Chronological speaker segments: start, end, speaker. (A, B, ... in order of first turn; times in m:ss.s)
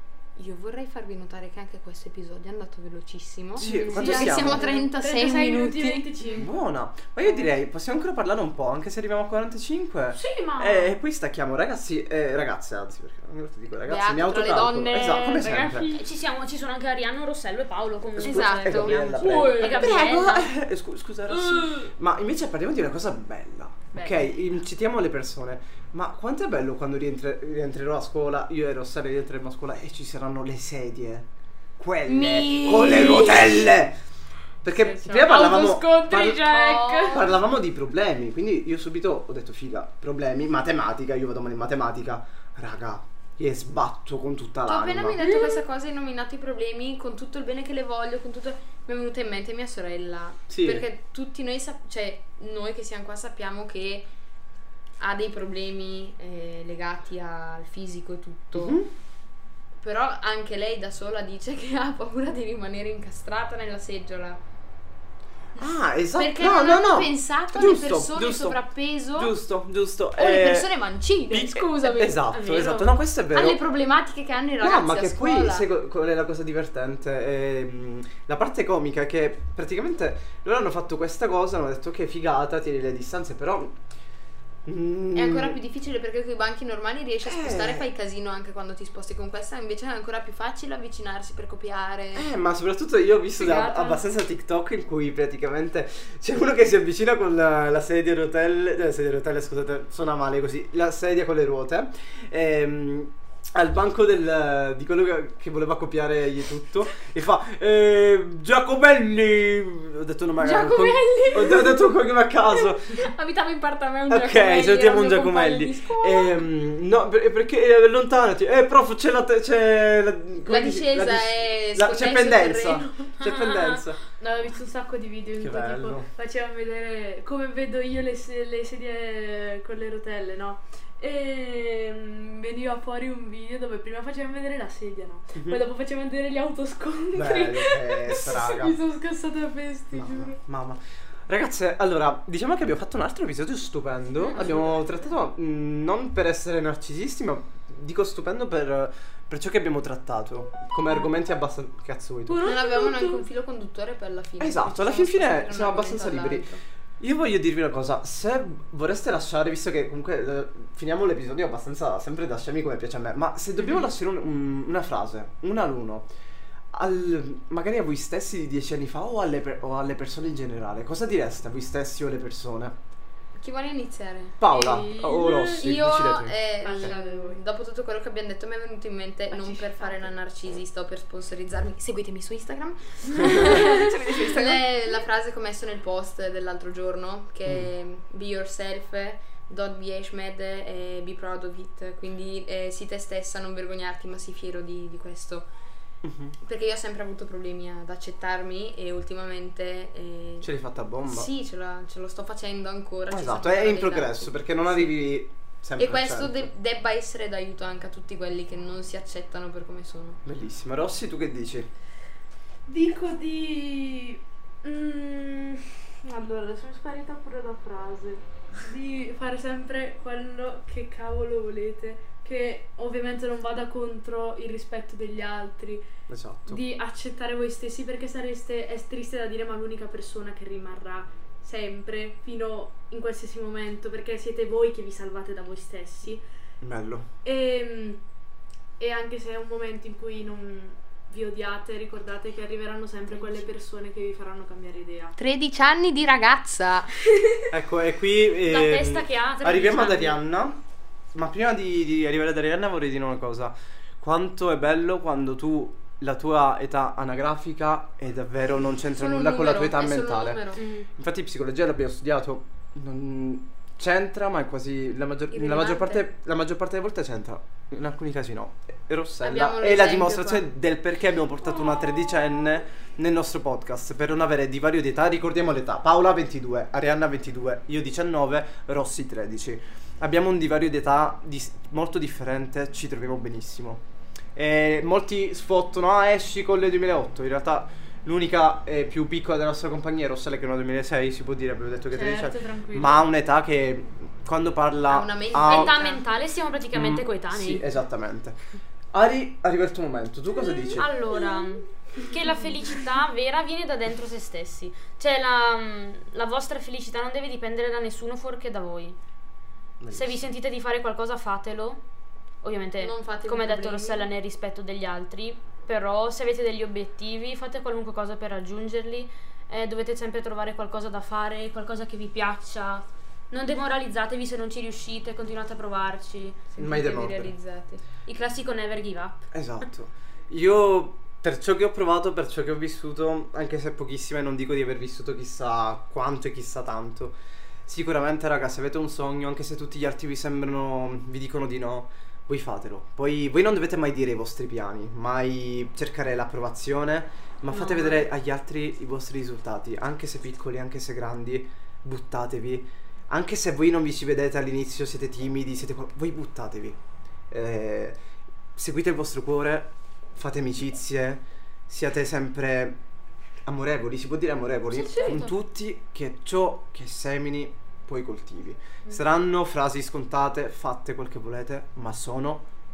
0:00.4-0:06.1 A
0:03.6-0:04.7 B
0:03.6-0:04.1 C
0:03.9-0:06.5 D
0:06.3-0:16.0 B
0:10.1-0:11.0 D
0:13.9-0:15.5 A
0:15.4-0:15.8 D
0:15.7-0:20.5 C
0:18.2-0:31.3 B
0:18.2-0:20.4 A
0:19.2-0:20.0 D
0:21.3-0:21.9 D
0:24.0-0:24.3 A
0:31.8-0:34.0 B
0:32.0-0:33.8 A
0:34.6-0:45.2 B
0:34.7-0:37.2 D
0:36.5-0:37.3 A
0:44.7-0:54.1 A
0:45.2-0:45.6 D
0:50.5-0:50.8 B
0:55.0-0:58.8 A
0:58.5-0:58.9 B
0:59.8-1:04.4 A
1:05.6-1:08.6 B
1:06.2-1:09.3 A
1:09.2-1:10.7 B
1:10.2-1:12.3 A
1:11.3-1:13.6 B
1:12.3-1:12.9 C
1:13.3-1:15.7 A
1:14.6-1:23.8 B
1:24.7-1:25.6 B
1:25.1-1:32.3 A
1:27.3-1:27.9 B
1:32.2-1:53.1 B
1:33.4-1:34.0 D
1:50.4-1:51.8 A
1:52.6-1:56.4 A
1:54.1-2:04.0 B
2:00.4-2:03.1 A
2:03.2-2:03.9 C
2:04.2-2:20.4 D
2:05.4-2:06.1 B
2:15.4-2:15.6 B
2:17.1-2:18.8 B
2:19.9-2:32.5 B
2:32.3-2:33.2 D
2:32.4-2:36.6 A
2:34.4-2:36.5 B
2:37.0-2:46.1 B
2:46.7-2:52.7 B
2:53.4-2:54.4 A
2:54.4-2:56.9 B
2:54.4-2:55.7 D
2:55.6-3:15.5 A
2:56.6-2:57.4 D
2:59.3-3:00.0 D
3:03.2-3:04.6 B
3:16.0-3:16.4 B
3:16.4-3:20.5 A
3:20.4-3:21.3 B
3:21.0-3:25.0 A
3:23.1-3:26.5 B
3:25.8-3:30.2 A
3:30.2-3:31.7 B
3:32.7-3:45.8 D
3:46.1-3:46.6 B
3:46.5-3:56.2 D
3:56.6-3:57.1 B
3:57.2-3:58.0 D
3:58.8-4:05.2 D
4:05.2-4:06.9 A
4:07.5-4:10.6 B
4:08.4-4:10.2 C
4:11.1-4:20.4 B
4:18.9-4:20.6 A
4:20.6-4:20.9 C
4:21.0-4:43.8 B
4:25.3-4:26.0 A
4:29.2-4:30.5 A
4:44.4-4:55.9 B
4:51.9-4:53.0 D
4:54.9-4:56.0 A
4:55.4-4:57.6 C
4:56.7-4:58.4 B
4:58.9-5:00.9 B
5:00.6-5:09.0 C
5:09.8-5:10.2 B
5:09.9-5:11.8 C
5:12.4-5:26.4 C
5:12.8-5:14.1 A
5:26.5-5:27.8 A
5:26.6-5:27.3 B
5:28.0-5:29.3 C
5:29.3-5:56.8 B
5:47.5-5:48.1 C
5:57.3-5:58.0 B
5:58.6-6:02.8 B
6:03.5-6:12.4 B
6:04.7-6:05.3 C